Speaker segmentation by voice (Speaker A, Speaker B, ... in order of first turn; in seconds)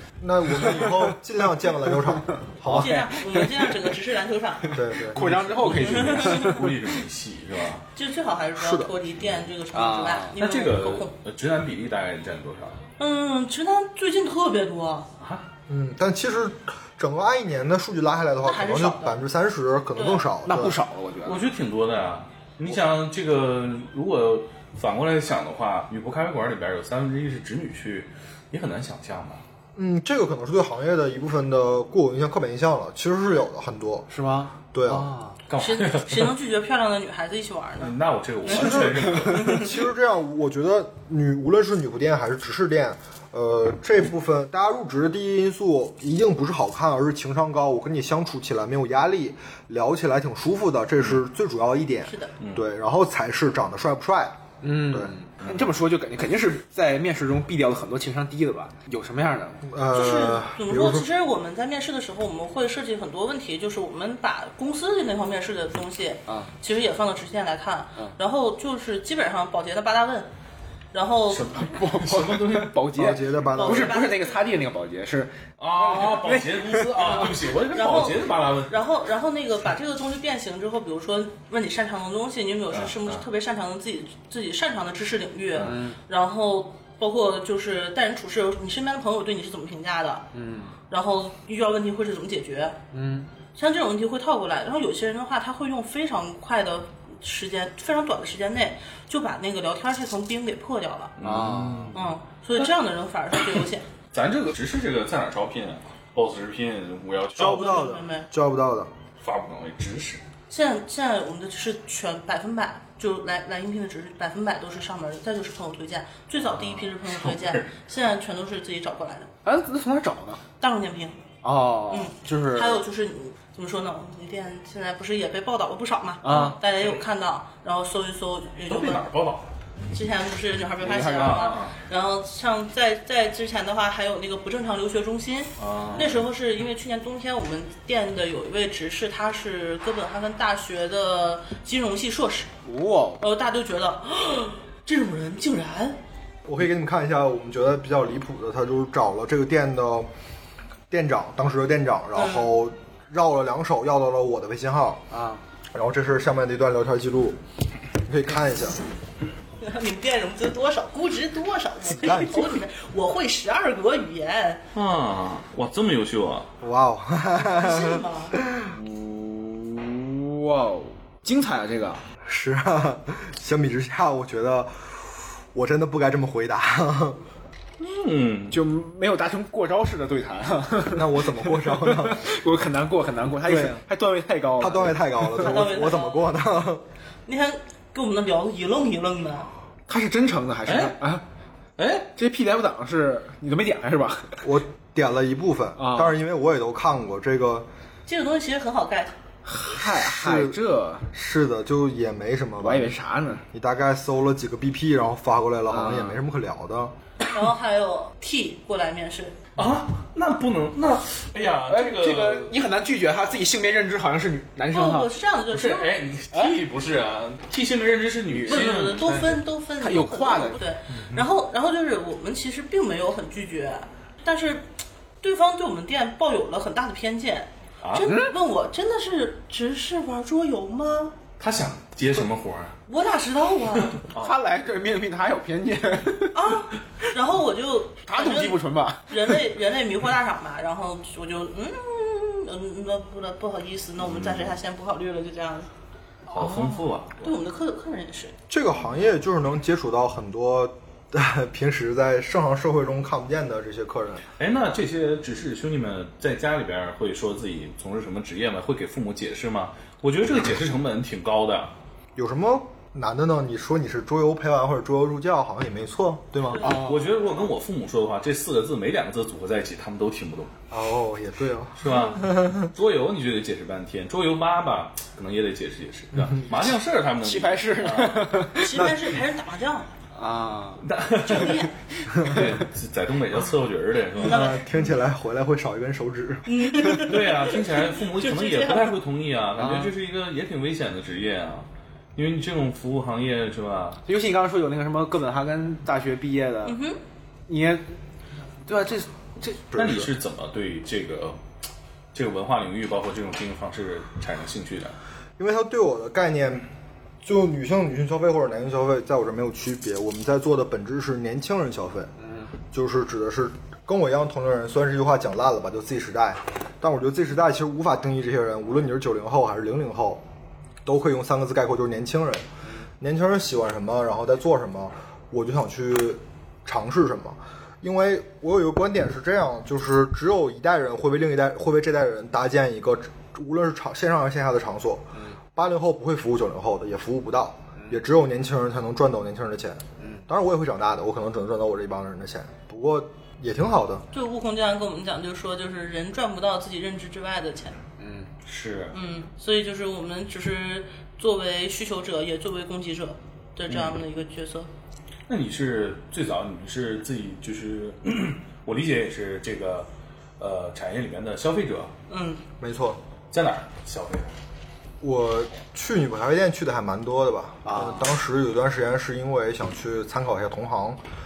Speaker A: 0.2-3.1, 4.7-5.3, 8.6-8.9, 15.7-20.8, 29.8-34.1, 34.7-35.1, 38.5-55.1, 59.7-61.1, 73.0-74.0, 107.3-108.9, 146.4-150.1, 150.9-155.0, 155.7-157.4, 158.1-158.8, 161.9-162.6, 166.6-168.7, 172.2-177.2, 180.9-182.3, 183.4-183.8, 184.6-186.8, 194.4-197.7, 199.6-200.6, 201.1-202.9, 203.5-206.9, 248.5-254.3, 262.2-266.7, 270.7-272.7, 276.1-276.5, 284.2-287.1, 299.7-300.1, 305.4-306.7, 307.2-312.1, 312.7-320.2, 320.9-322.5, 323.0-344.1, 362.6-363.0, 365.0-371.0
Speaker B: 0.5-1.1, 1.8-3.9, 4.7-6.7, 9.7-10.3, 20.4-21.5, 34.1-35.4, 54.6-59.7, 71.5-77.3, 85.6-86.0, 90.3-90.8, 92.9-93.3, 101.2-102.0, 119.5-120.4, 121.4-122.8, 126.2-126.6, 130.8-131.6, 142.7-143.2, 155.1-155.4, 169.0-172.0, 178.5-185.6, 189.9-191.2, 192.2-194.5, 195.8-196.2, 199.4-201.1, 202.6-203.4, 205.7-206.2, 211.7-215.1, 216.3-216.6, 218.3-218.9, 219.8-220.6, 228.0-228.3, 234.2-236.6, 238.1-239.4, 246.4-246.7, 266.6-267.2, 277.2-278.9, 280.1-281.7, 282.2-282.6, 289.6-289.9, 294.1-296.8, 297.5-297.9, 298.7-299.7, 312.2-312.5, 340.0-340.3, 348.0-348.3, 367.6-368.1
Speaker C: 2.8-4.8, 5.7-6.7, 8.0-11.1, 13.0-15.1, 18.4-19.2, 20.0-20.3, 35.6-37.9, 39.4-39.7, 52.1-52.3, 59.9-70.3, 70.9-71.5, 73.5-74.4, 77.0-90.3, 90.9-92.8, 93.6-101.1, 101.9-103.9, 107.4-108.3, 110.5-119.3, 120.6-121.2, 121.9-129.1, 129.9-142.5, 143.2-146.0, 152.2-152.5, 159.6-164.6, 167.4-168.4, 185.4-186.3, 187.3-189.5, 198.1-199.2, 207.3-209.4, 214.7-215.9, 218.5-224.7, 225.2-231.2, 232.9-234.0, 236.3-245.7, 247.2-248.3, 266.5-266.8, 278.6-279.9, 281.2-281.7, 284.2-284.6, 286.5-289.0, 296.6-297.0, 344.1-347.8, 348.9-354.7, 362.1-362.4
Speaker D: 5.1-7.8, 10.4-12.8, 15.2-15.4, 21.2-29.4, 35.5-36.3, 37.8-39.7, 55.4-55.7, 71.3-72.9, 75.6-78.8, 82.7-83.2, 101.2-102.0, 104.1-107.8, 109.2-110.2, 116.5-117.7, 128.7-129.5, 131.2-131.8, 135.6-136.2, 164.7-166.5, 168.7-169.1, 177.8-178.6, 190.7-191.0, 191.8-192.1, 209.6-212.6, 215.5-219.4, 220.9-221.3, 227.8-228.1, 231.4-232.8, 234.0-234.4, 244.0-244.6, 246.3-247.2, 254.4-261.7, 266.6-270.5, 271.8-278.4, 280.8-281.7, 282.2-284.6, 286.9-294.0, 299.8-301.4, 302.1-305.0, 348.5-349.0, 353.7-353.9, 355.3-359.9, 360.4-361.9, 363.3-364.3